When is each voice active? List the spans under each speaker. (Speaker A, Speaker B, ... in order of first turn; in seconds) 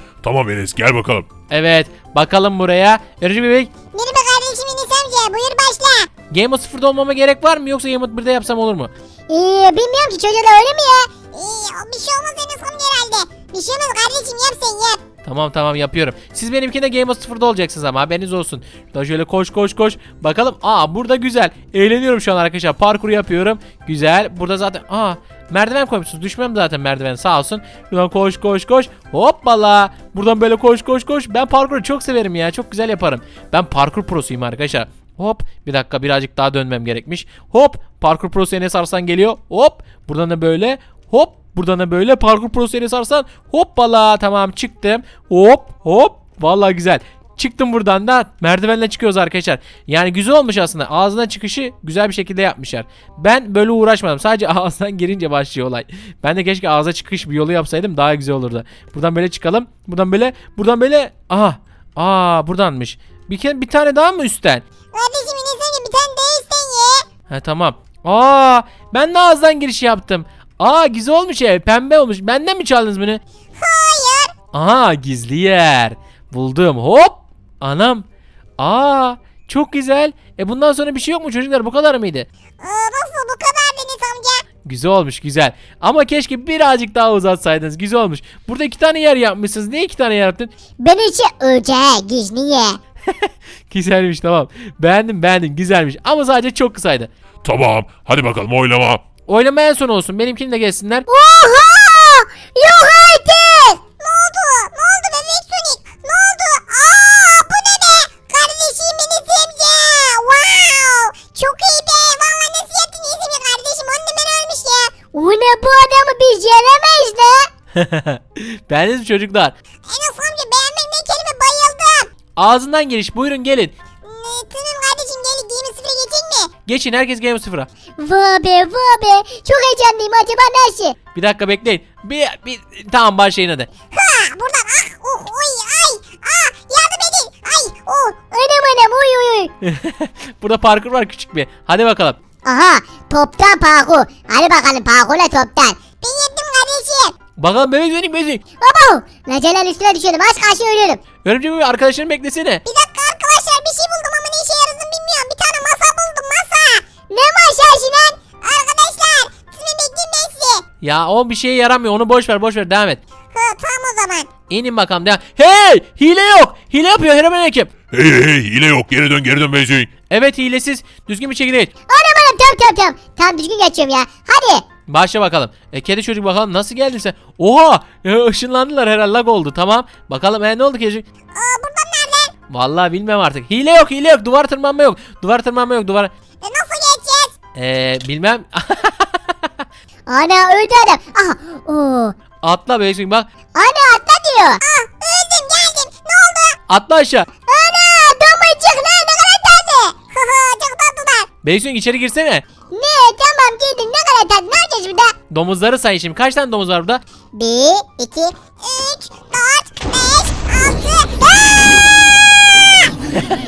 Speaker A: 0.2-1.3, 97.4-99.0, 167.9-169.9
Speaker B: 1.5-3.7, 6.3-8.9, 15.2-64.6, 67.3-73.2, 74.5-78.0, 78.6-82.3, 84.6-90.5, 93.1-97.1, 99.3-101.1, 117.8-119.5, 122.4-123.8, 126.7-127.7, 131.2-133.7, 139.6-142.2, 147.4-148.4, 151.2-152.6, 160.8-163.0, 164.5-167.7, 170.1-171.7, 174.9-181.1, 182.5-186.1, 187.6-189.2, 192.4-193.3, 196.7-197.3, 201.4-202.4, 205.3-207.0
Speaker C: 3.9-6.1, 9.3-15.0, 64.9-67.0, 73.5-74.3, 82.6-84.4, 90.8-92.8, 101.1-117.5, 119.8-122.1, 124.0-126.5, 128.0-131.0, 133.9-139.5, 142.4-147.1, 148.6-151.0, 152.7-160.7, 163.3-164.3, 171.9-174.6, 181.3-182.3, 186.4-187.3, 190.1-192.2, 193.6-196.6, 197.5-201.3, 202.7-205.1, 207.3-211.9